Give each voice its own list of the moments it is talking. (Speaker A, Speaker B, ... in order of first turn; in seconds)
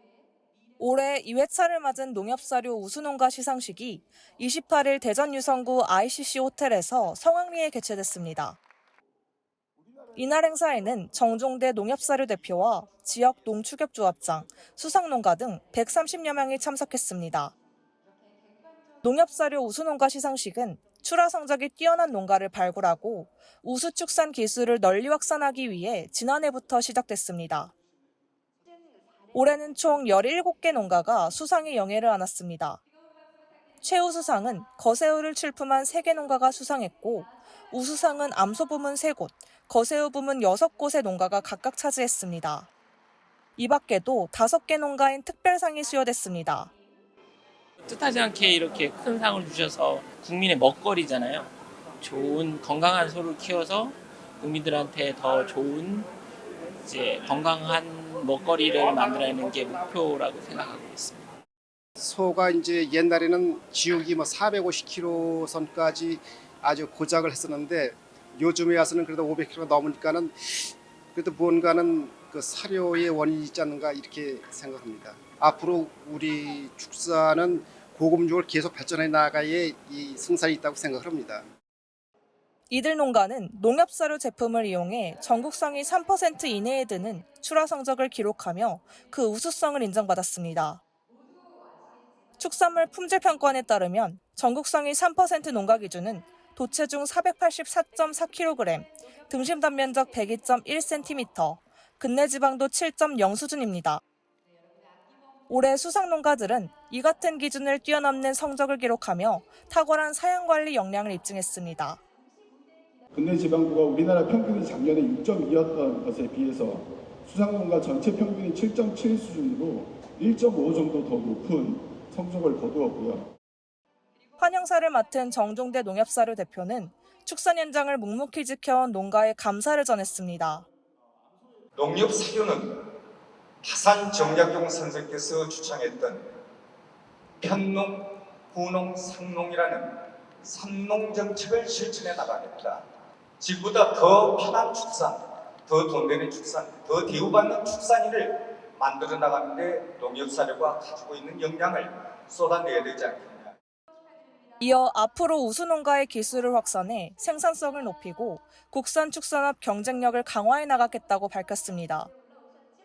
Speaker A: 0.8-8.6, 10.2-17.5, 19.0-27.7, 29.3-32.8, 33.8-42.7, 43.6-46.7, 82.7-90.8, 92.4-104.0, 105.5-112.0, 124.4-130.7, 154.6-162.1
Speaker B: 47.9-51.5, 52.0-56.1, 56.9-61.3
Speaker C: 62.0-81.5
Speaker D: 113.1-123.3
Speaker E: 131.8-132.9, 133.6-136.3, 137.4-142.8, 143.4-153.6